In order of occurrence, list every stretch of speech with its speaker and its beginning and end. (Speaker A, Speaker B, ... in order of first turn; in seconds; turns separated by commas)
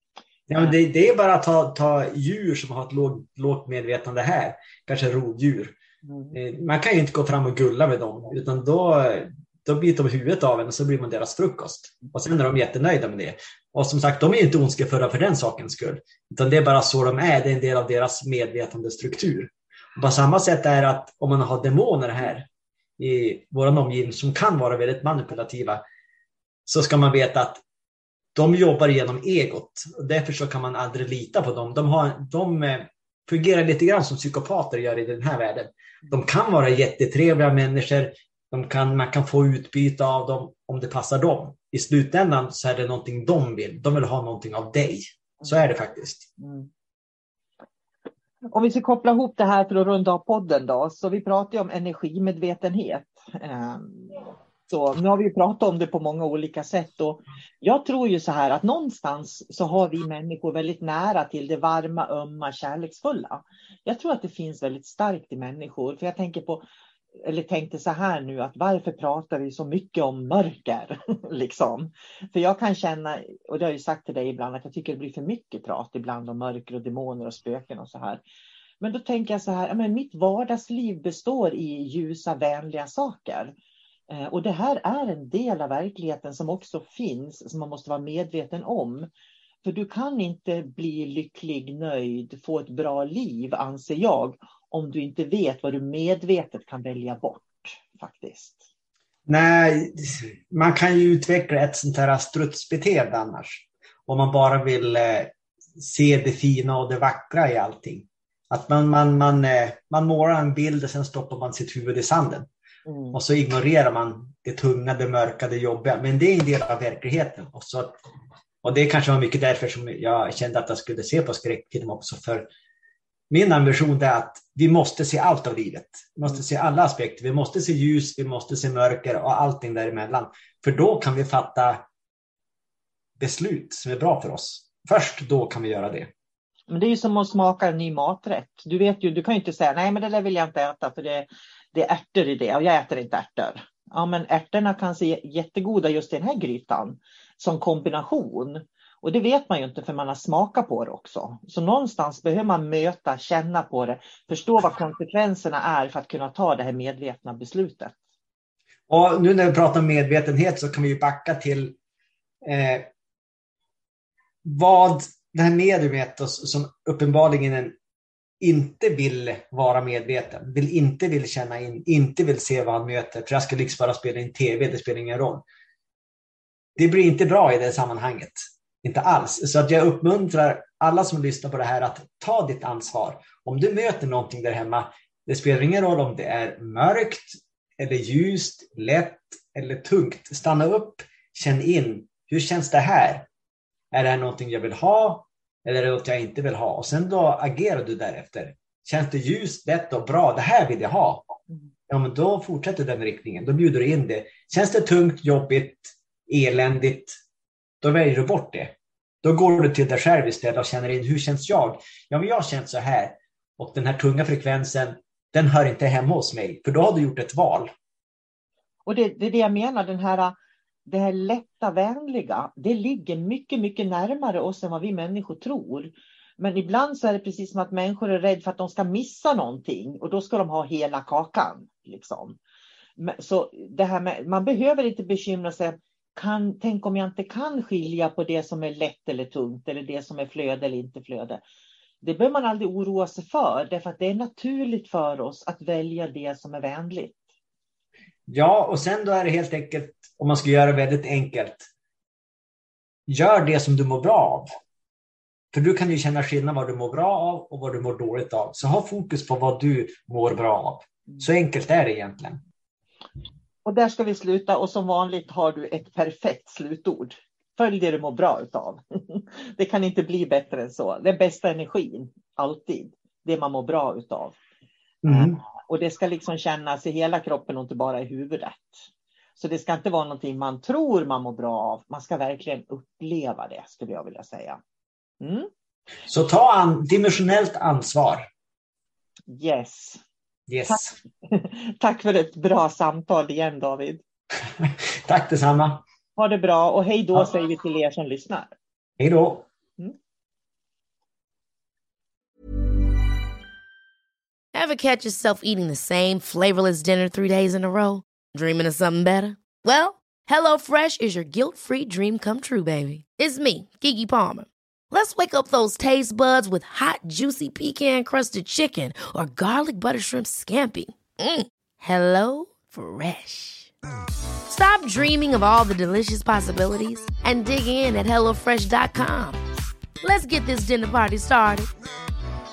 Speaker A: 0.5-5.8, Speaker B: 6.0-6.4, Speaker A: 6.3-25.8, Speaker A: 26.6-27.6, Speaker A: 28.4-46.3, Speaker B: 45.4-45.7, Speaker B: 46.4-46.7, Speaker B: 48.5-66.6, Speaker B: 67.2-78.2, Speaker B: 78.8-83.5, Speaker B: 84.1-89.1, Speaker B: 89.6-98.6, Speaker A: 99.3-112.5, Speaker B: 112.9-113.2, Speaker A: 113.1-118.0, Speaker A: 118.6-122.5, Speaker A: 123.3-131.8, Speaker A: 133.2-136.1, Speaker B: 136.7-157.9, Speaker A: 158.9-161.8, Speaker A: 162.4-162.9, Speaker A: 164.4-167.8, Speaker A: 168.4-175.4, Speaker A: 176.8-193.3, Speaker A: 193.9-201.3, Speaker A: 201.9-207.2, Speaker A: 207.8-217.7, Speaker B: 218.9-220.3, Speaker B: 220.9-232.4, Speaker B: 233.0-241.4, Speaker B: 242.0-247.2, Speaker A: 248.3-251.7, Speaker A: 253.1-254.5, Speaker A: 255.5-262.4, Speaker B: 263.6-274.4, Speaker A: 275.0-275.4, Speaker B: 275.1-284.6, Speaker B: 285.2-285.5, Speaker A: 286.1-288.3, Speaker B: 289.3-290.0, Speaker A: 290.5-290.9, Speaker B: 290.7-294.0, Speaker A: 294.6-295.8, Speaker B: 296.2-298.5, Speaker A: 299.0-299.4, Speaker C: 304.5-323.7, Speaker C: 324.5-329.4, Speaker C: 330.0-331.7